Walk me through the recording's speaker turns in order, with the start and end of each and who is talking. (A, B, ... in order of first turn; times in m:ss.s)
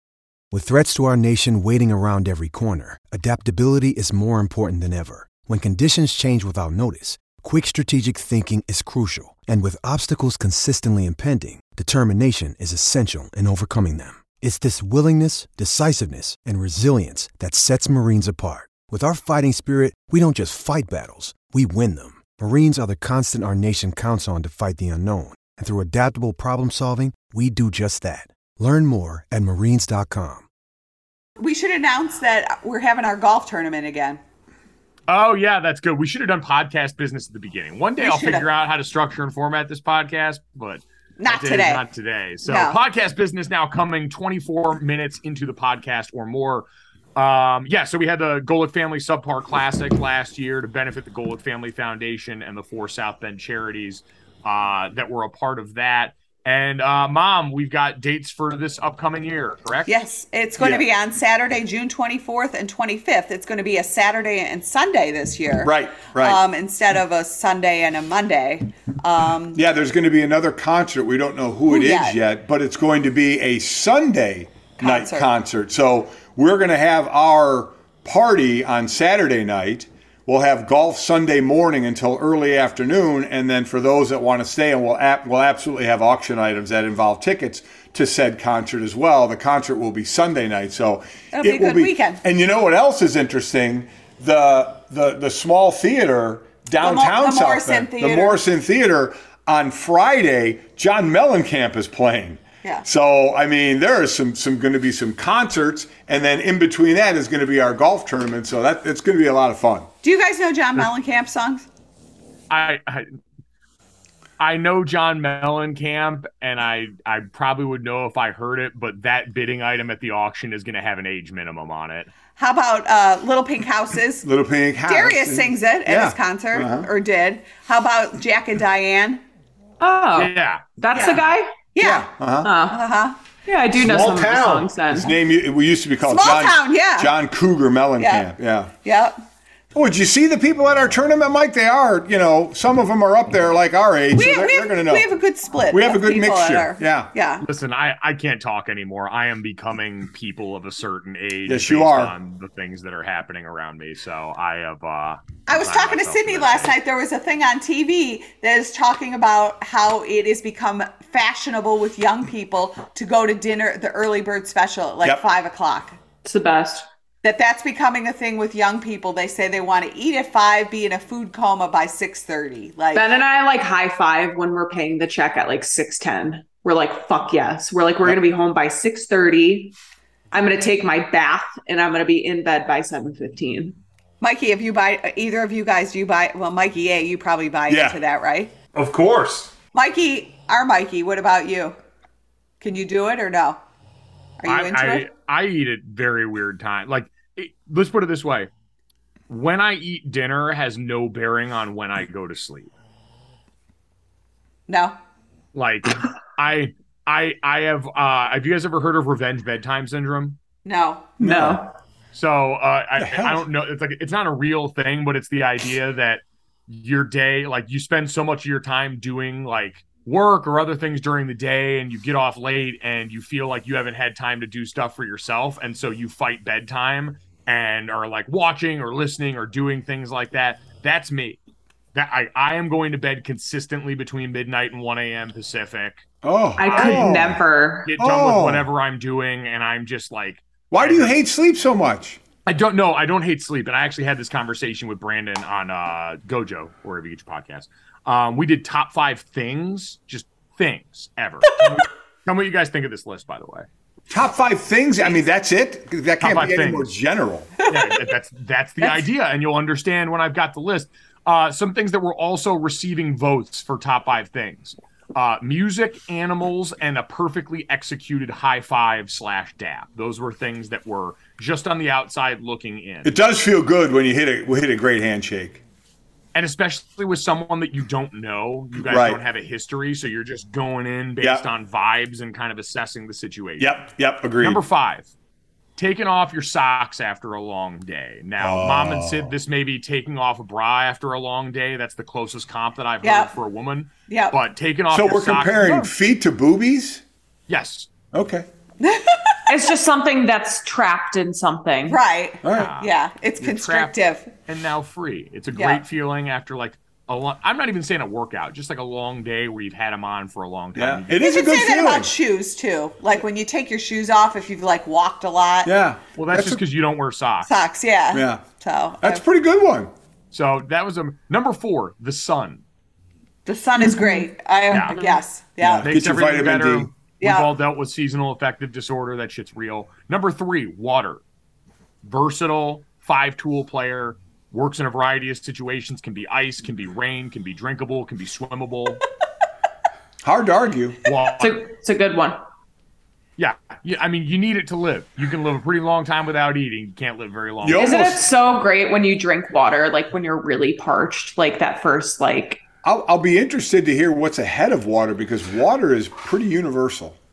0:00.5-0:30.4 A
0:31.4-0:34.2 B
0:35.1-0:59.9 C
0:38.0-0:38.4 B
0:41.2-0:41.8 B
0:42.4-0:42.8 B
0:59.9-1:09.6 B
1:00.6-1:00.9 D
1:05.6-1:06.4 D
1:09.5-1:49.9 D
1:11.7-1:12.2 B
1:14.8-1:15.3 B
1:31.3-1:32.2 B
1:36.8-1:38.4 B
1:50.0-1:51.6 B
1:52.5-1:53.2 C
1:54.4-2:02.1 C
2:02.4-2:04.3 B
2:04.2-2:06.9 D
2:04.9-2:09.2 B
2:09.8-2:11.7 E
2:10.2-2:10.9 C
2:10.9-2:11.2 B
2:11.7-2:13.2 B
2:11.8-2:12.5 D
2:12.4-2:12.8 E
2:13.4-2:15.1 E
2:13.7-2:14.8 F
2:14.9-2:18.7 D
2:16.1-2:17.1 B
2:18.0-2:18.3 B
2:18.8-2:19.2 B
2:19.7-2:25.1 D
2:24.1-2:27.4 B
2:25.7-2:27.1 D
2:27.4-2:36.7 C
2:31.5-2:32.1 D
2:35.5-2:46.0 B
2:46.2-2:46.9 E
2:47.2-2:53.1 B
2:52.9-2:59.8 E
3:00.3-3:03.8 E
3:04.2-3:08.5 B
3:07.7-3:08.0 D
3:08.7-3:09.5 F
3:09.7-3:11.8 B
3:12.6-3:13.6 B
3:14.4-3:15.1 B
3:14.4-3:18.5 C
3:19.3-3:22.7 C
3:24.7-3:25.0 B
3:25.5-3:30.4 C
3:30.6-3:31.2 B
3:31.2-3:31.6 D
3:31.2-3:31.7 E
3:32.1-3:51.4 C
3:33.0-3:33.4 D
3:51.9-3:56.0 C
3:56.2-3:57.4 D
3:56.6-3:57.9 E
3:56.7-3:57.2 C
3:57.8-4:01.2 C
3:58.0-3:58.7 D
4:00.7-4:02.2 D
4:02.5-4:13.7 C
4:14.1-4:17.5 D
4:16.2-4:16.9 C
4:17.7-4:33.1 C
4:33.0-4:35.6 D
4:36.4-4:43.8 C
4:38.8-4:39.2 D
4:43.6-4:44.6 D
4:44.4-4:45.1 C
4:45.8-4:55.9 C
4:48.4-4:49.3 D
4:53.0-4:53.3 B
4:54.1-4:54.4 B
4:54.9-4:57.0 D
4:57.5-4:57.9 C
4:58.1-4:58.5 D
4:58.8-4:59.4 B
4:59.5-5:02.0 E
5:01.9-5:04.3 B
5:02.4-5:02.7 D
5:02.5-5:11.2 C
5:05.5-5:05.8 B
5:10.8-5:12.1 D
5:11.2-5:15.7 B
5:15.6-5:16.6 D
5:16.2-5:17.5 C
5:17.4-5:19.2 B
5:18.1-5:18.4 D
5:19.0-5:19.9 D
5:20.3-5:22.6 C
5:23.5-5:25.9 B
5:23.8-5:24.2 E
5:24.7-5:25.0 C
5:25.6-5:26.9 D
5:25.8-5:31.2 C
5:27.2-5:27.5 B
5:32.0-5:39.0 C
5:40.2-5:41.0 D
5:41.0-5:41.6 C
5:41.4-5:42.4 E
5:43.4-5:48.2 C
5:47.6-5:48.2 D
5:47.7-5:52.6 E
5:52.8-5:57.2 D